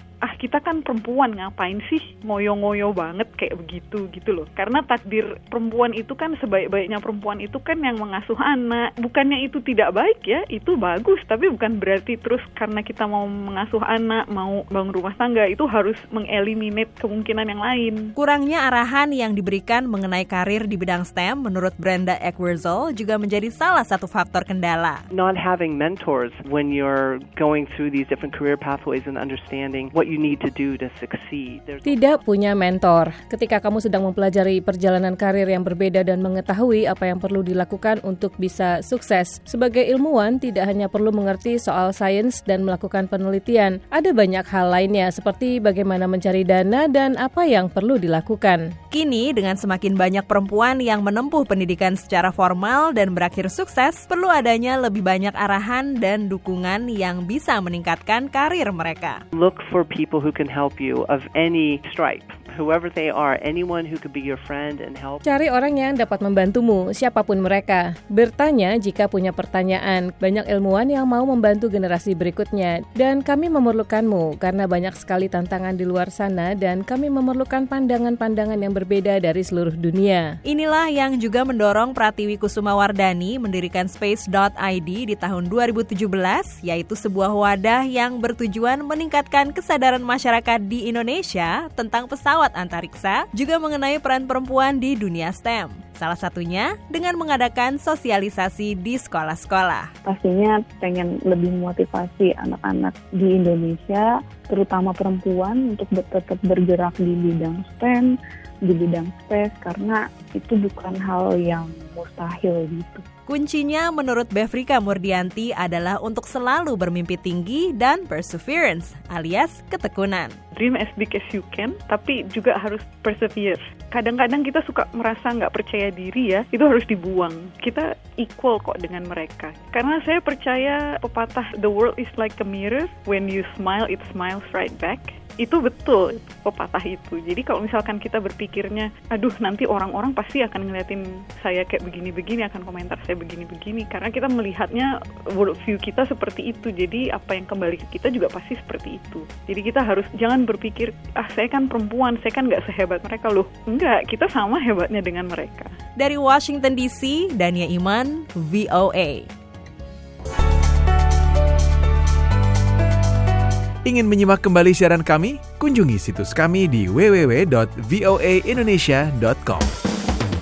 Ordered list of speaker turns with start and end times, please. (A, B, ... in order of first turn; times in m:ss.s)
0:00.3-0:18.0 A
0:18.2-0:25.0 B
0:25.1-0:32.2 C
0:31.8-0:48.6 D
0:48.9-0:59.2 B
0:59.3-1:05.2 C
1:05.2-1:20.3 D
1:20.4-1:39.9 B
1:40.0-1:48.1 E
1:48.6-1:53.0 E
1:53.3-2:00.3 B
2:00.6-2:24.9 A
2:25.4-2:35.7 A
2:36.0-2:39.3 B
2:43.8-2:49.7 F